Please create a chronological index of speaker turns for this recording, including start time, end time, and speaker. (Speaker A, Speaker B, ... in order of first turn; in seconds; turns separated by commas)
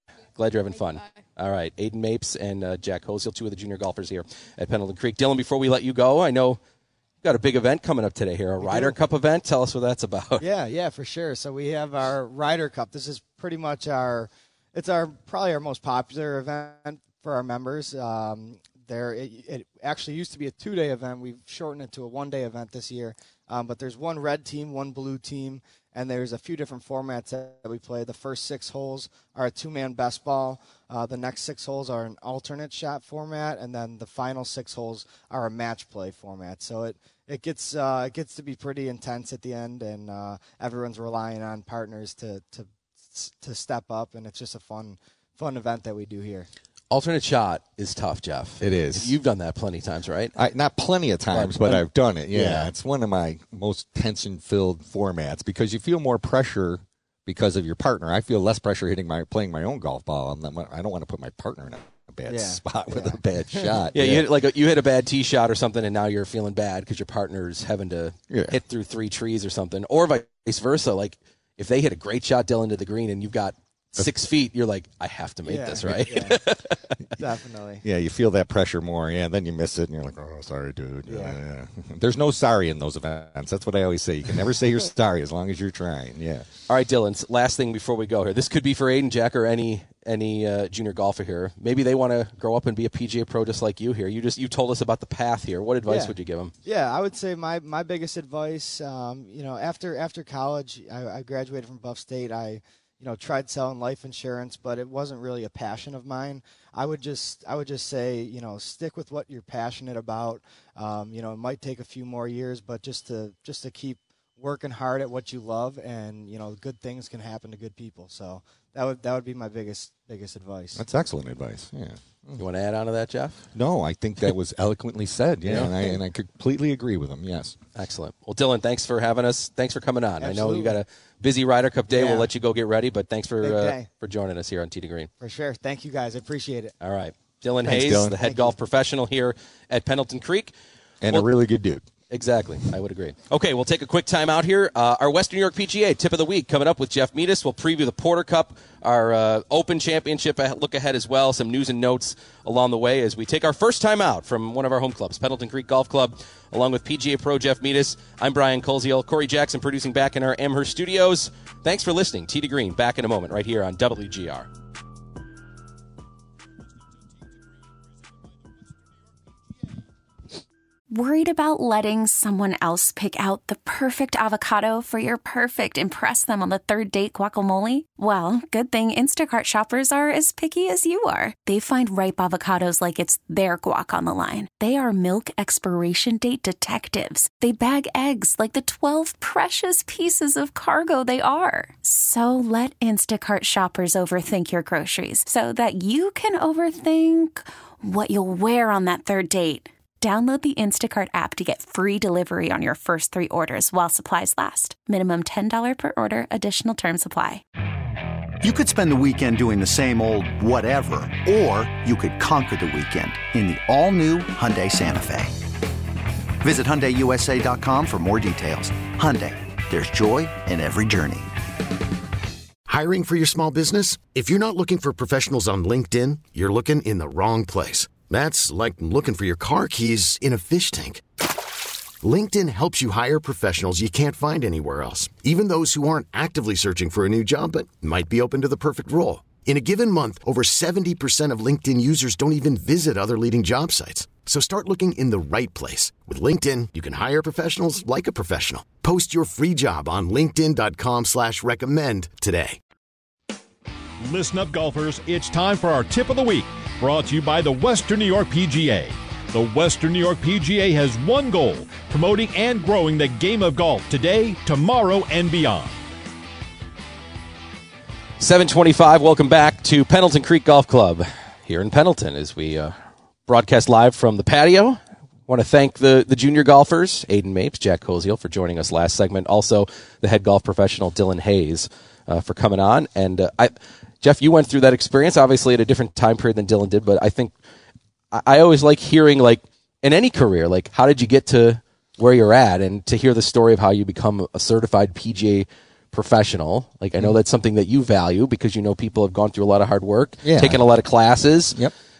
Speaker A: 0.3-6.6, Speaker A: 7.2-10.4, Speaker B: 8.6-9.0, Speaker B: 10.4-46.5, Speaker A: 46.9-50.3, Speaker C: 48.6-49.2, Speaker C: 50.3-64.3, Speaker A: 51.3-52.6, Speaker B: 62.3-63.7, Speaker A: 63.9-77.0, Speaker C: 68.3-68.6, Speaker B: 75.4-76.4, Speaker C: 75.9-76.2, Speaker B: 77.2-77.8, Speaker C: 77.8-86.5, Speaker B: 81.1-81.4, Speaker A: 86.7-96.5, Speaker B: 95.9-120.8, Speaker C: 120.7-122.4, Speaker A: 122.4-123.5, Speaker C: 123.5-127.6, Speaker A: 125.5-125.7, Speaker A: 127.7-135.1, Speaker B: 130.2-130.8, Speaker B: 131.9-132.3, Speaker B: 133.4-133.9, Speaker B: 135.2-136.7, Speaker A: 136.8-140.5, Speaker C: 137.6-138.2, Speaker B: 138.2-138.5, Speaker C: 141.0-141.9, Speaker A: 142.1-164.5, Speaker D: 170.9-207.4, Speaker E: 208.4-215.3, Speaker E: 216.4-221.3, Speaker F: 222.7-231.0, Speaker F: 232.0-252.6, Speaker G: 254.0-265.8, Speaker A: 268.2-272.8, Speaker A: 273.3-287.3, Speaker A: 288.1-301.6, Speaker C: 300.2-300.6